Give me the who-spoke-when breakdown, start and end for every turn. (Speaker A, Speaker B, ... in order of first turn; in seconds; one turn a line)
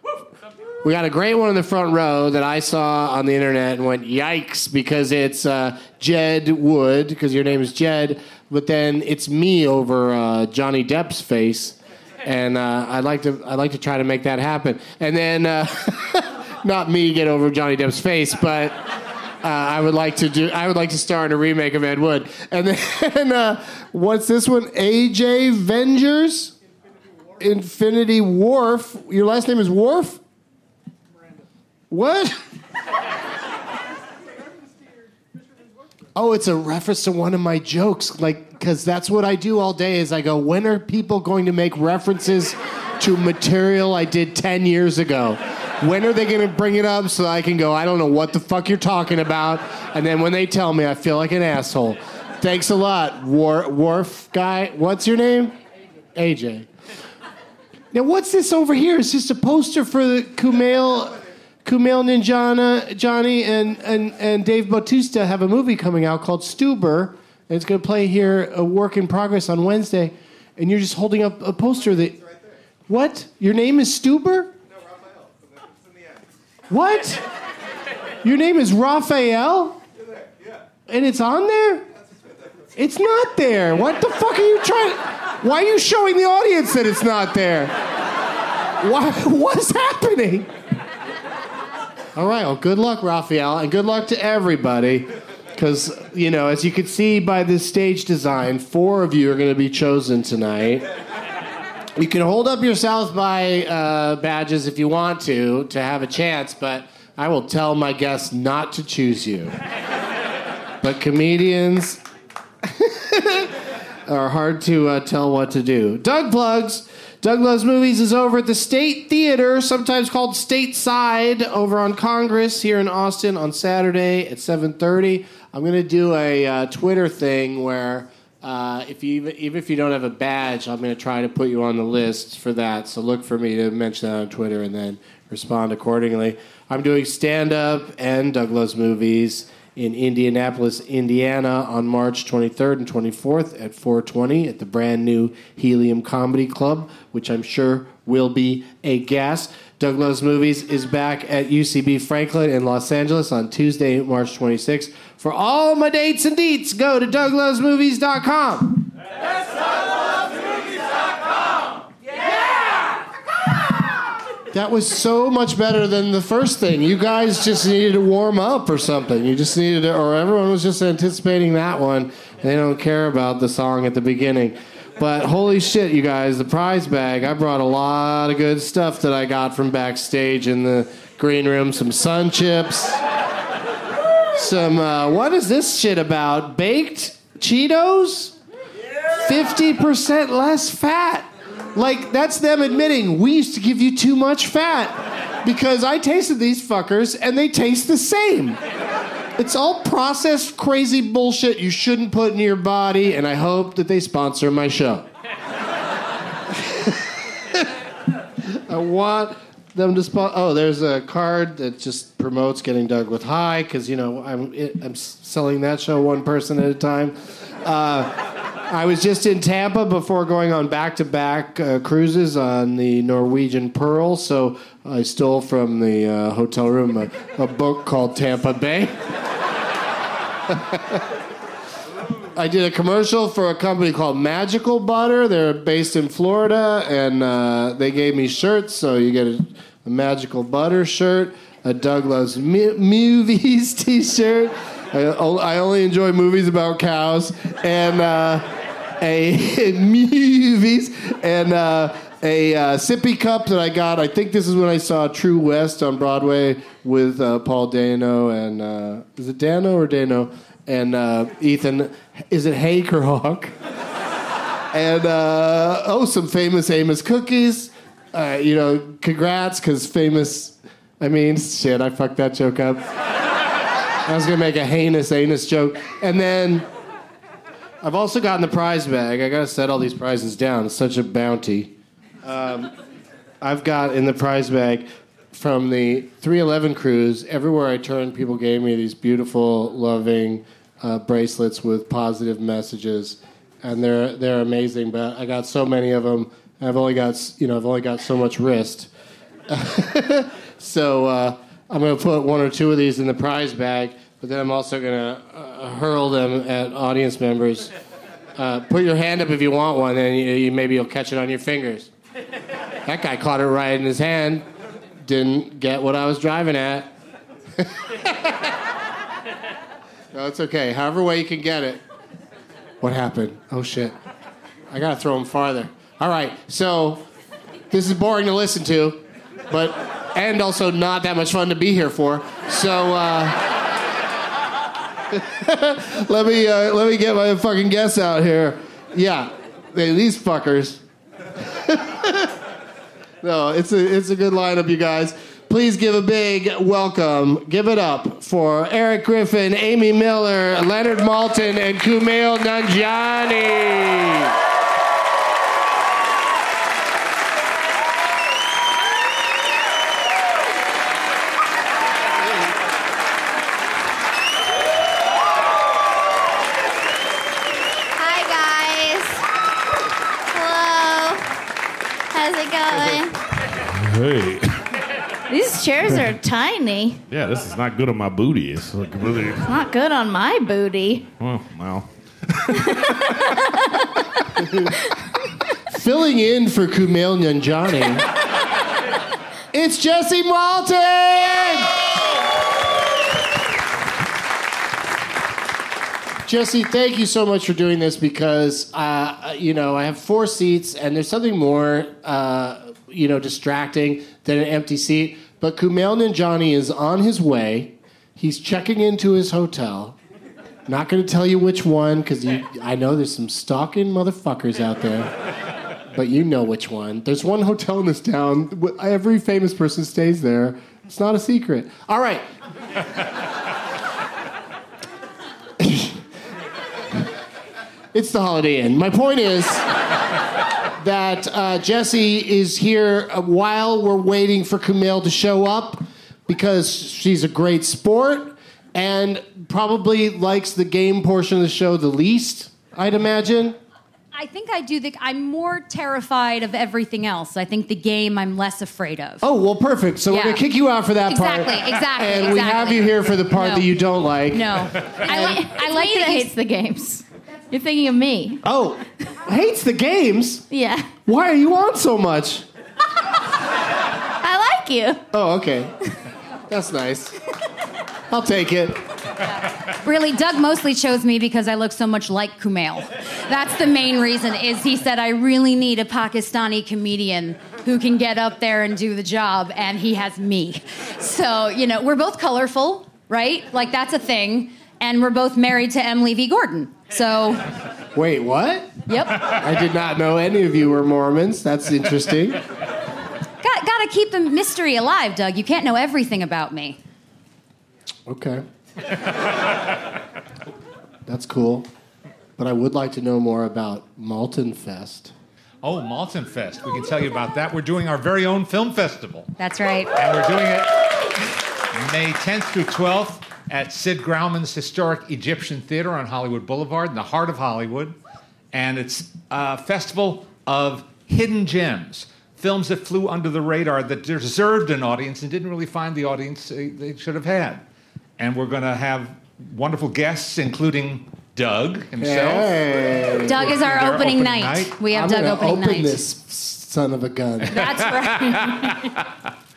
Speaker A: 0.8-18.8
Speaker A: 19.4-26.5
Speaker A: 27.4-30.2
Speaker A: 31.9-32.4
Speaker A: 36.1-55.6
Speaker A: 56.1-56.7
Speaker A: 57.9-72.2
Speaker A: 72.9-74.5
Speaker A: 76.7-77.2
Speaker A: 78.2-79.8
Speaker A: 80.9-81.9
Speaker A: 82.8-87.8
Speaker A: 88.8-90.5
Speaker A: 92.2-100.9
Speaker A: 102.0-109.5
Speaker A: 110.8-112.0
Speaker A: 112.6-113.5
Speaker A: 114.1-158.9
Speaker A: 164.5-183.0
Speaker A: 184.3-188.4
Speaker A: 189.2-198.6
Speaker A: 199.4-205.1
Speaker A: 206.5-207.7
Speaker A: 208.4-218.2
Speaker A: 218.7-229.0
Speaker A: 230.5-231.0
Speaker A: 232.3-263.5
Speaker A: 264.7-272.8
Speaker A: 274.1-276.7
Speaker A: 277.8-281.7
Speaker A: 282.2-282.7
Speaker A: 283.4-298.9
Speaker A: 299.5-307.7
Speaker A: 308.4-311.9
Speaker A: 312.9-314.5
Speaker A: 315.0-316.9
Speaker A: 317.6-318.5
Speaker A: 320.1-321.8
Speaker A: 322.8-323.9
Speaker A: 324.7-327.1
Speaker A: 327.7-333.5
Speaker A: 335.1-340.8
Speaker A: 341.4-342.3
Speaker A: 343.2-354.3
Speaker B: 368.0-369.3
Speaker B: 370.3-371.2
Speaker B: 372.1-373.2
Speaker C: 373.7-374.6
Speaker B: 375.3-377.0
Speaker C: 377.1-379.5
Speaker B: 379.5-381.1
Speaker C: 381.2-382.7
Speaker B: 382.7-383.9
Speaker A: 385.7-388.1
Speaker A: 389.5-391.9
Speaker A: 396.2-410.0
Speaker A: 410.7-415.1
Speaker A: 415.9-422.3
Speaker A: 425.6-426.0
Speaker A: 427.9-429.7
Speaker A: 430.8-443.6
Speaker D: 444.1-449.3
Speaker A: 449.2-454.8
Speaker D: 450.1-450.4
Speaker D: 451.1-453.7
Speaker D: 454.3-456.3
Speaker B: 455.1-458.4
Speaker A: 458.4-460.5
Speaker B: 460.5-460.9
Speaker A: 461.1-462.5
Speaker B: 464.2-465.0
Speaker A: 465.1-465.7
Speaker A: 466.5-467.2
Speaker A: 468.1-468.8
Speaker D: 469.8-487.5
Speaker A: 487.9-492.4
Speaker D: 488.9-489.3
Speaker D: 493.4-496.8
Speaker A: 498.1-498.4
Speaker A: 501.1-501.7
Speaker A: 502.4-505.1
Speaker E: 505.6-509.4
Speaker D: 509.4-509.9
Speaker E: 509.9-510.9
Speaker E: 511.8-518.0
Speaker E: 518.5-527.6
Speaker E: 528.2-532.6
Speaker A: 532.0-533.5
Speaker D: 533.2-536.0
Speaker E: 533.3-534.8
Speaker A: 534.9-537.7
Speaker D: 537.5-538.8